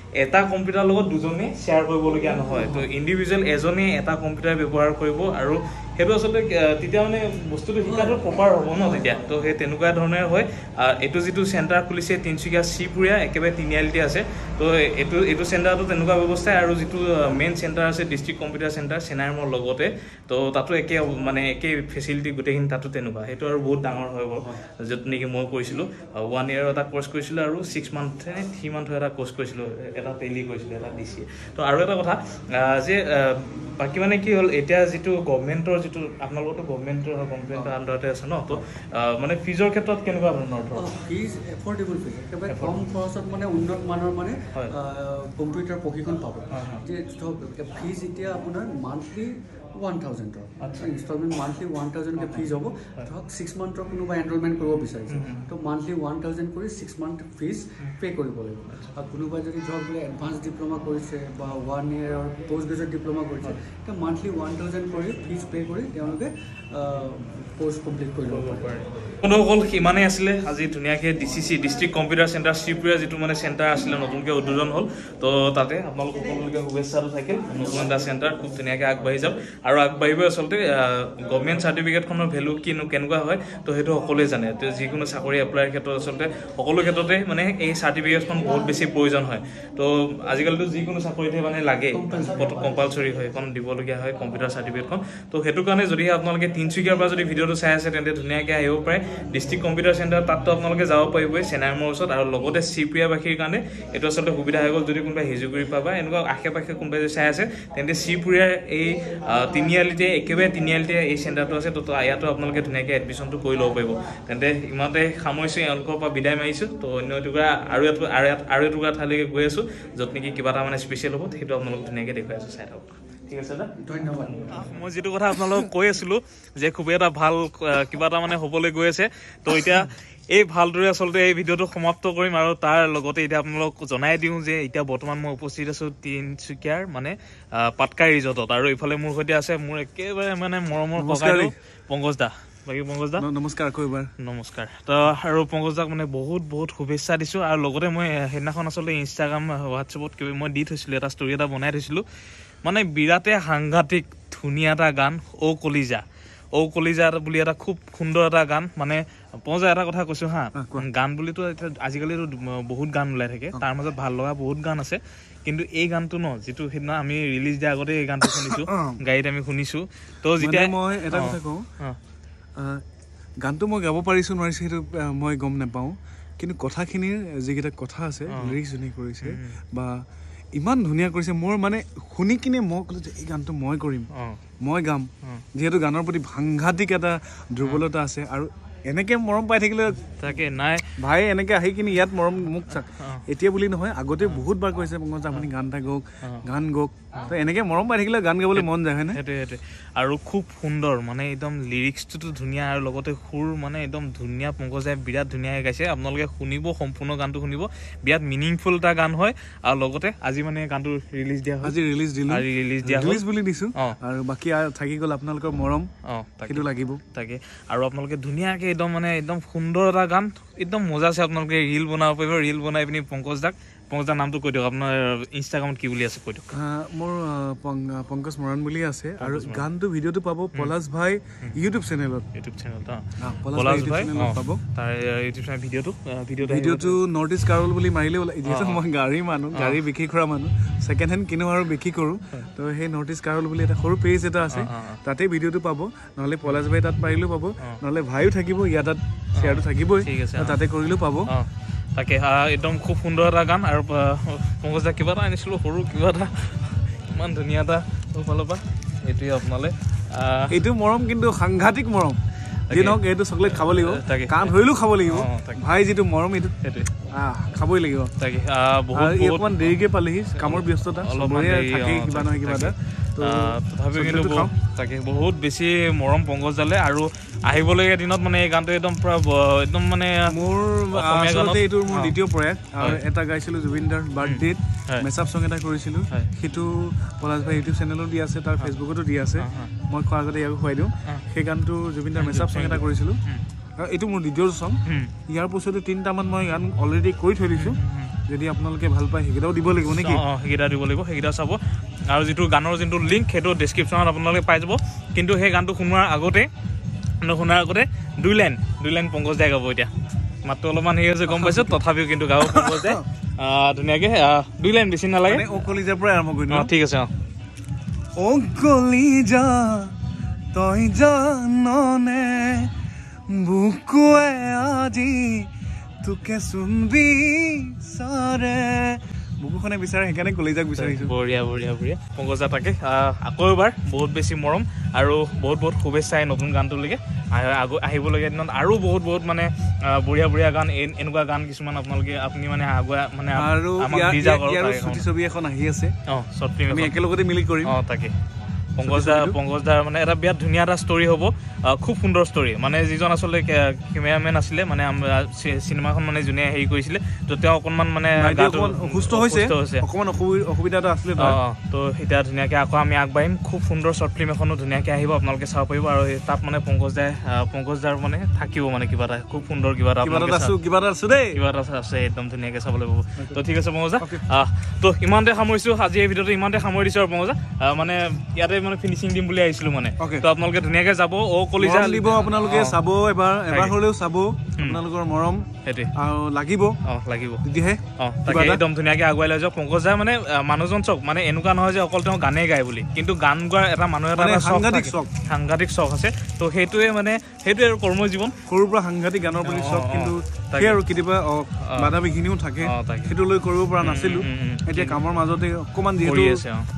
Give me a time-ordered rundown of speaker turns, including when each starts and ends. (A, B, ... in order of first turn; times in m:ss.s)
0:00.2-0:40.9 A
0:02.1-0:02.9 B
0:07.8-0:09.5 B
0:40.7-1:08.8 B
0:42.5-0:42.8 A
0:46.5-0:46.8 A
0:50.6-0:50.9 A
0:52.2-0:53.1 A
0:55.1-0:55.5 A
0:58.7-0:58.9 A
1:08.2-2:03.7 A
1:31.9-1:32.9 B
2:03.8-2:04.6 B
2:04.3-2:23.2 A
2:21.0-2:21.5 C
2:23.2-2:24.1 C
2:24.2-2:32.0 A
2:32.6-2:36.0 A
2:36.6-2:52.0 A
2:40.5-2:40.8 C
2:48.3-2:49.0 C
2:50.4-2:51.6 C
2:52.6-2:52.8 C
2:53.4-3:00.0 C
2:58.3-2:58.6 A
2:59.2-2:59.6 A
3:00.5-3:04.1 C
3:04.1-3:04.4 A
3:04.6-3:10.2 C
3:10.1-3:11.0 A
3:11.0-3:19.2 C
3:13.0-3:13.2 A
3:18.6-3:31.8 A
3:31.6-3:35.9 C
3:32.3-3:33.2 A
3:36.1-3:46.5 A
3:36.5-3:37.0 C
3:46.5-3:52.3 C
3:49.2-3:49.6 A
3:52.3-3:57.0 A
3:53.2-3:54.6 C
3:56.4-4:11.3 C
3:58.4-3:58.8 A
3:59.5-3:59.8 A
4:04.5-4:05.0 A
4:06.4-4:06.7 A
4:09.3-4:10.6 A
4:11.3-4:20.6 A
4:20.5-4:22.2 C
4:22.7-4:25.6 A
4:22.7-4:26.5 C
4:26.6-4:26.9 A
4:27.1-4:28.1 C
4:28.2-4:40.3 A
4:28.9-4:34.5 C
4:40.3-4:53.2 C
4:40.9-4:42.1 A
4:44.2-4:45.1 A
4:49.4-4:49.7 A
4:52.2-4:53.4 A
4:53.8-5:00.2 C
4:54.8-4:55.1 A
4:57.6-4:58.2 A
4:59.9-5:06.5 A
5:07.2-5:09.9 A
5:10.4-5:15.7 A
5:11.3-5:11.8 C
5:12.4-5:13.0 C
5:15.2-5:16.7 C
5:16.5-5:17.1 A
5:18.2-5:19.9 C
5:20.5-5:22.7 C
5:23.3-5:25.5 C
5:26.0-5:31.1 C
5:30.8-5:45.0 A
5:43.3-5:45.9 C
5:46.1-5:46.9 A
5:46.7-5:47.7 C
5:47.6-5:48.1 A
5:48.8-5:59.8 A
5:48.8-5:49.4 C
5:58.2-6:01.4 C
6:01.2-6:10.6 A
6:10.0-6:11.4 C
6:11.3-6:22.8 A
6:20.0-6:20.3 C
6:21.6-6:26.8 C
6:23.5-6:23.8 A
6:25.6-6:25.9 A
6:26.8-6:27.4 A
6:27.4-6:28.6 C
6:28.0-6:38.4 A
6:34.2-6:35.1 C
6:38.5-6:46.4 C
6:39.4-6:40.8 A
6:41.6-6:42.0 A
6:42.6-6:43.1 A
6:43.8-6:45.2 A
6:46.0-6:46.7 A